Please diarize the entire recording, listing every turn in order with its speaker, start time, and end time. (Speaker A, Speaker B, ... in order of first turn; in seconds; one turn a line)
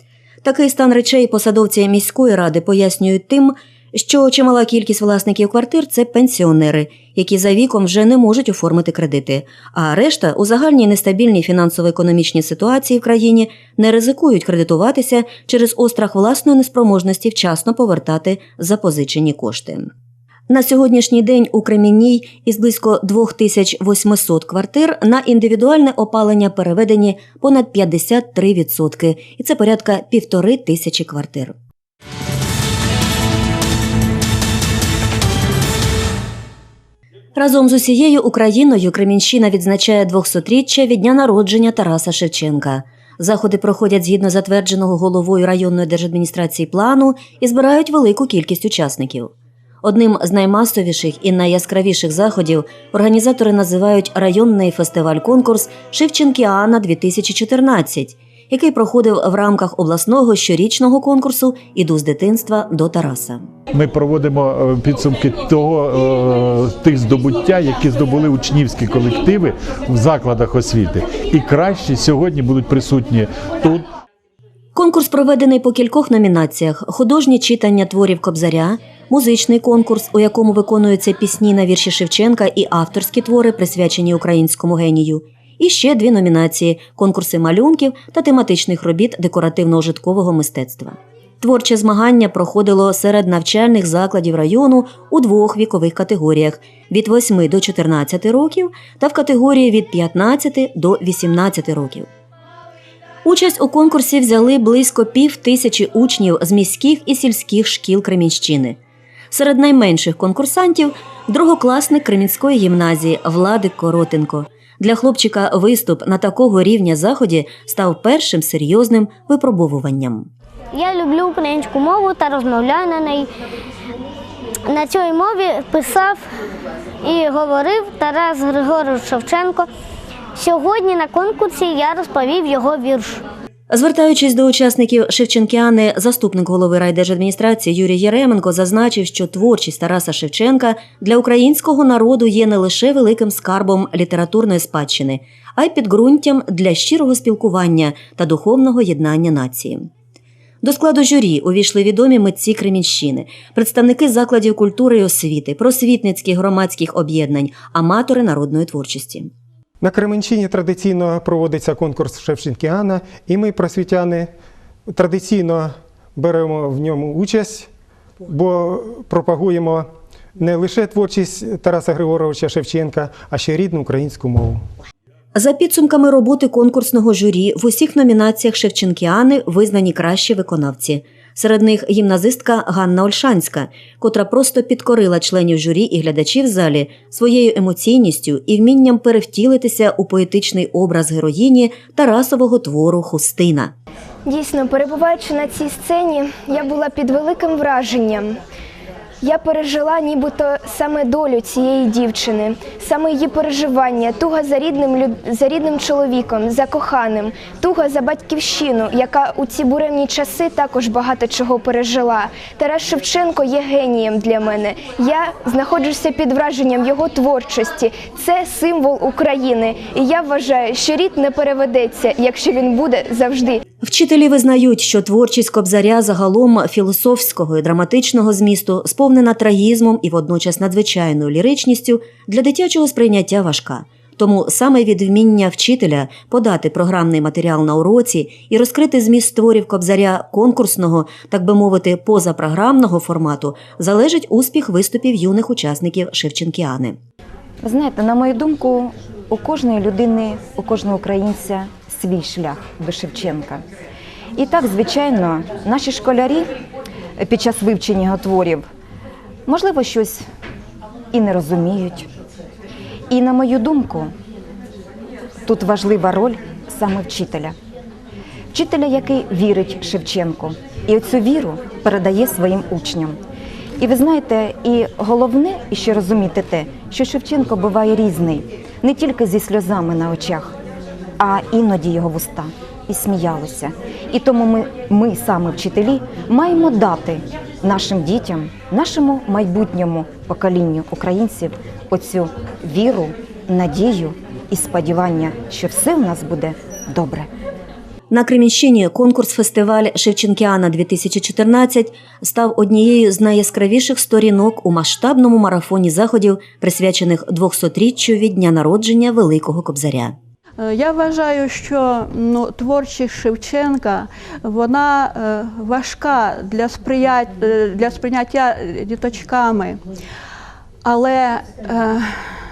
Speaker A: 0.4-19.9
Speaker A: 20.5-31.5
Speaker A: 37.4-49.3
Speaker A: 49.8-63.5
Speaker B: 63.7-73.9
Speaker A: 74.8-102.1
Speaker A: 103.2-108.8
Speaker A: 109.3-120.3
Speaker C: 120.7-123.3
Speaker C: 124.7-126.2
Speaker C: 127.0-129.7
Speaker C: 130.4-133.2
Speaker A: 133.7-149.9
Speaker A: 150.6-159.3
Speaker D: 159.8-164.3
Speaker D: 164.9-167.7
Speaker D: 168.2-174.6
Speaker A: 175.3-193.7
Speaker E: 194.2-198.4
Speaker E: 199.2-223.6
Speaker A: 223.8-247.0
Speaker F: 247.6-253.6
Speaker F: 254.4-256.5
Speaker F: 257.2-258.6
Speaker F: 259.5-260.2
Speaker F: 261.1-262.1
Speaker F: 263.1-264.1
Speaker F: 265.5-267.6
Speaker F: 268.5-273.2
Speaker F: 273.8-280.5
Speaker F: 281.2-297.3
Speaker A: 298.1-310.1
Speaker G: 310.6-319.8
Speaker G: 320.9-322.1